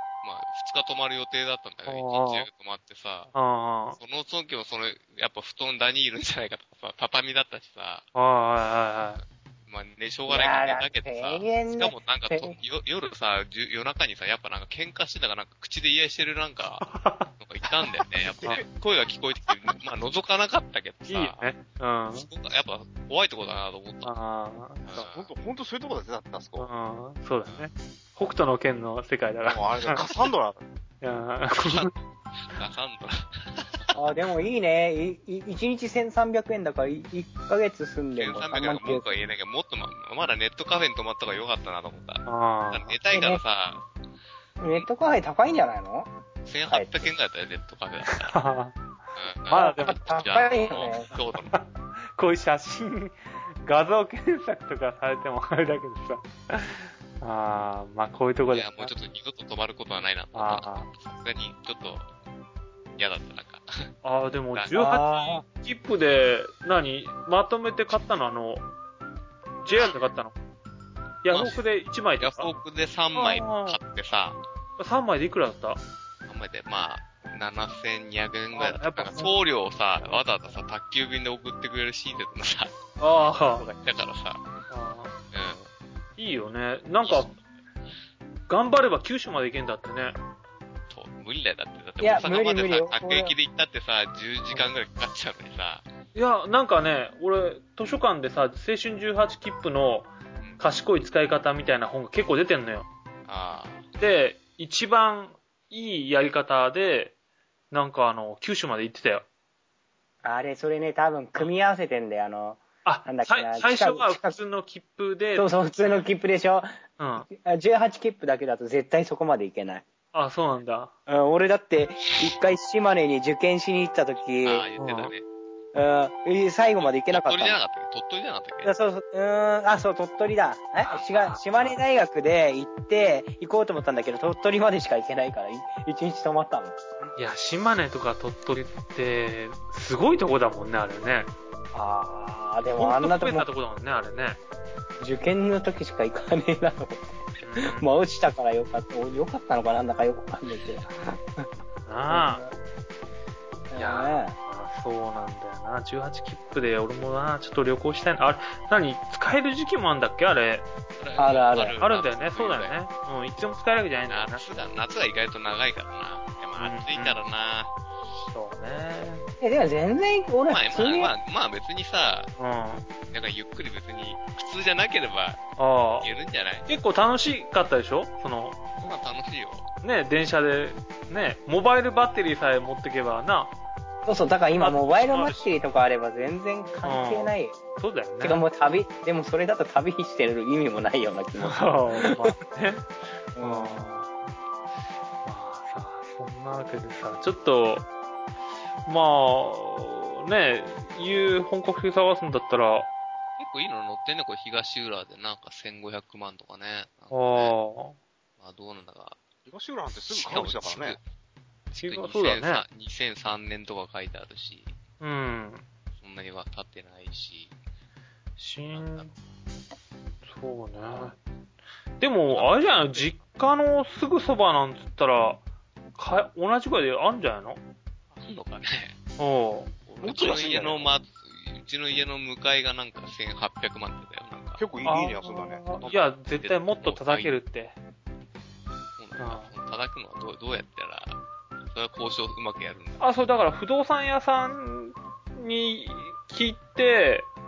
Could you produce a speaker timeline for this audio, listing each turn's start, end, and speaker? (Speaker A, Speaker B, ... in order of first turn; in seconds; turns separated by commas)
Speaker A: 0.2-3.3, Speaker B: 1.9-2.5, Speaker B: 3.3-4.0, Speaker A: 4.0-8.1, Speaker B: 8.1-9.2, Speaker A: 9.7-21.5, Speaker C: 10.3-12.5, Speaker B: 16.8-17.3, Speaker D: 18.3-18.6, Speaker B: 21.1-22.3, Speaker A: 22.1-24.1, Speaker B: 24.0-25.1, Speaker A: 24.9-25.3, Speaker D: 24.9-26.7, Speaker B: 26.6-30.0, Speaker D: 29.4-30.6, Speaker B: 31.0-31.9, Speaker A: 31.6-33.9, Speaker C: 33.9-39.1, Speaker A: 38.1-43.8, Speaker B: 42.2-42.9, Speaker C: 43.1-43.4, Speaker C: 44.6-46.1, Speaker A: 46.4-48.4, Speaker C: 46.7-47.1, Speaker B: 48.0-48.8, Speaker A: 49.1-51.6, Speaker B: 49.5-50.0, Speaker C: 49.5-51.1, Speaker B: 51.5-58.9, Speaker A: 58.5-62.1, Speaker B: 60.3-60.9, Speaker A: 63.0-63.9, Speaker B: 64.0-68.7, Speaker C: 64.7-65.4, Speaker B: 69.6-70.3, Speaker A: 69.7-70.0, Speaker B: 71.2-72.5, Speaker A: 71.3-71.6, Speaker A: 72.2-74.4, Speaker B: 73.1-73.8, Speaker B: 74.8-75.8, Speaker A: 76.3-82.7, Speaker B: 78.5-79.3, Speaker B: 80.0-80.6, Speaker B: 83.0-83.7, Speaker A: 83.5-84.4, Speaker B: 84.7-85.2, Speaker A: 85.3-85.7, Speaker B: 86.2-87.3, Speaker A: 87.0-87.3, Speaker B: 88.5-90.2, Speaker A: 90.9-95.8, Speaker C: 92.0-93.3, Speaker B: 96.1-102.9, Speaker A: 103.3-103.9, Speaker B: 104.0-107.1, Speaker B: 107.7-109.2, Speaker C: 110.2-114.4, Speaker B: 112.8-115.5, Speaker C: 115.3-116.7, Speaker B: 117.0-117.3, Speaker C: 117.3-119.8, Speaker B: 120.1-120.9, Speaker C: 121.1-124.7, Speaker A: 124.4-125.2, Speaker B: 124.8-125.1, Speaker C: 125.7-127.6, Speaker A: 126.8-128.7, Speaker C: 128.6-136.8, Speaker B: 131.1-131.7, Speaker B: 137.2-141.3, Speaker C: 141.7-143.4, Speaker B: 142.8-144.4, Speaker C: 145.0-151.4, Speaker B: 147.4-147.9, Speaker B: 151.9-152.4, Speaker C: 152.1-152.5, Speaker C: 153.7-154.3, Speaker B: 153.8-160.7, Speaker A: 161.0-162.8, Speaker C: 161.2-161.8, Speaker B: 161.8-164.4, Speaker A: 164.1-167.7, Speaker B: 166.6-167.2, Speaker B: 168.3-169.3, Speaker C: 169.4-171.1, Speaker A: 170.5-172.3, Speaker B: 172.4-172.9, Speaker A: 173.1-175.4, Speaker B: 175.6-176.1, Speaker A: 176.0-176.7, Speaker B: 176.7-178.6, Speaker A: 178.8-179.7, Speaker B: 179.8-183.5, Speaker C: 184.1-187.6, Speaker B: 184.6-185.4, Speaker B: 186.8-188.4, Speaker C: 188.2-192.3, Speaker B: 191.4-192.9, Speaker C: 193.3-193.9, Speaker B: 193.4-194.2, Speaker B: 195.2-197.9, Speaker B: 198.8-202.9, Speaker A: 203.4-207.6, Speaker B: 207.1-208.0, Speaker A: 208.4-209.2, Speaker D: 209.5-211.0, Speaker A: 210.1-211.0, Speaker A: 211.7-214.7, Speaker B: 211.8-212.6, Speaker B: 215.0-215.6, Speaker A: 216.0-217.5, Speaker B: 218.4-219.1, Speaker A: 218.7-219.1, Speaker B: 220.3-221.2, Speaker B: 222.0-225.4, Speaker A: 222.3-223.1, Speaker B: 225.9-227.6, Speaker A: 228.1-229.0, Speaker B: 229.2-229.7, Speaker A: 229.9-234.6, Speaker D: 230.0-230.9, Speaker D: 234.6-235.9, Speaker B: 234.8-237.8, Speaker A: 235.8-237.3, Speaker A: 239.0-243.1, Speaker B: 239.2-239.5, Speaker B: 243.0-247.3